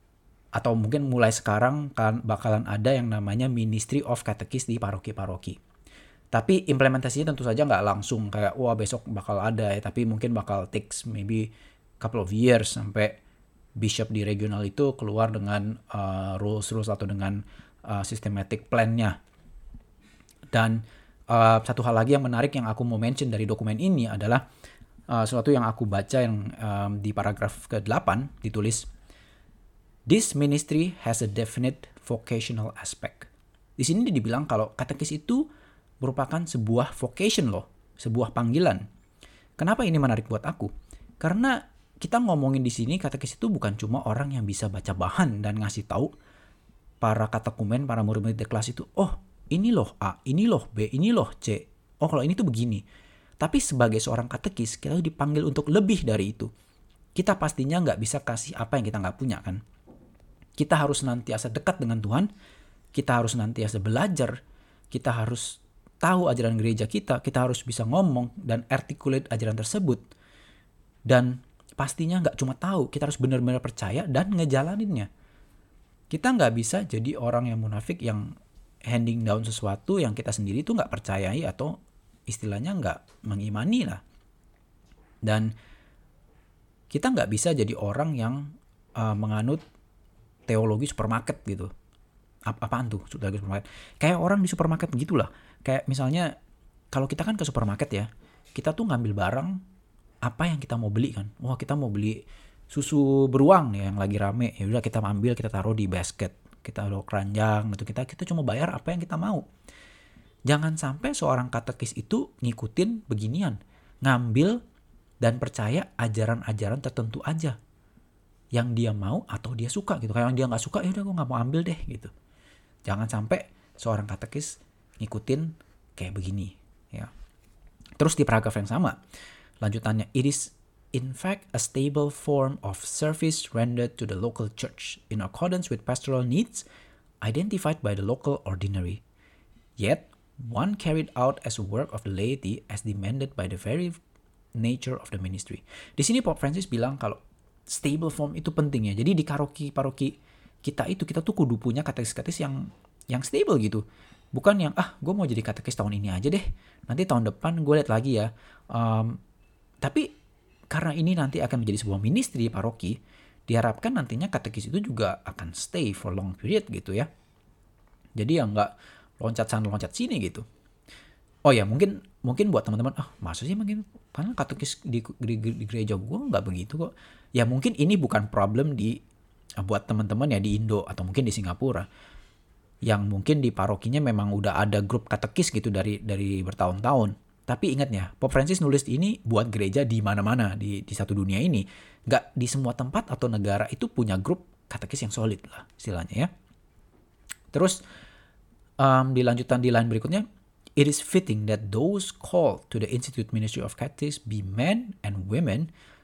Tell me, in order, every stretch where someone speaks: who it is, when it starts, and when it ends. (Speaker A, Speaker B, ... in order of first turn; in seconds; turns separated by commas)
Speaker A: 0.5-5.6, Speaker A: 6.3-13.2, Speaker A: 13.8-19.2, Speaker A: 20.5-24.4, Speaker A: 25.1-28.9, Speaker A: 30.1-35.4, Speaker A: 36.0-38.8, Speaker A: 39.6-46.1, Speaker A: 47.0-52.8, Speaker A: 53.4-56.5, Speaker A: 57.1-59.6, Speaker A: 60.6-62.3, Speaker A: 62.9-64.4, Speaker A: 64.9-70.0, Speaker A: 71.1-75.1, Speaker A: 76.1-78.3, Speaker A: 78.8-81.8, Speaker A: 82.3-84.0, Speaker A: 85.2-85.5, Speaker A: 86.9-89.6, Speaker A: 90.5-91.7, Speaker A: 92.5-96.3, Speaker A: 96.9-99.6, Speaker A: 100.2-102.2, Speaker A: 102.7-109.5, Speaker A: 110.5-114.6, Speaker A: 115.2-117.6, Speaker A: 118.5-122.1, Speaker A: 122.8-127.1, Speaker A: 128.0-129.0, Speaker A: 129.6-136.7, Speaker A: 137.2-139.0, Speaker A: 139.8-144.0, Speaker A: 144.6-159.2, Speaker A: 159.8-160.1, Speaker A: 160.7-163.0, Speaker A: 163.5-167.1, Speaker A: 168.2-170.4, Speaker A: 171.5-179.0, Speaker A: 179.6-181.9, Speaker A: 182.8-196.3, Speaker A: 197.5-197.8, Speaker A: 198.8-200.2, Speaker A: 200.8-205.7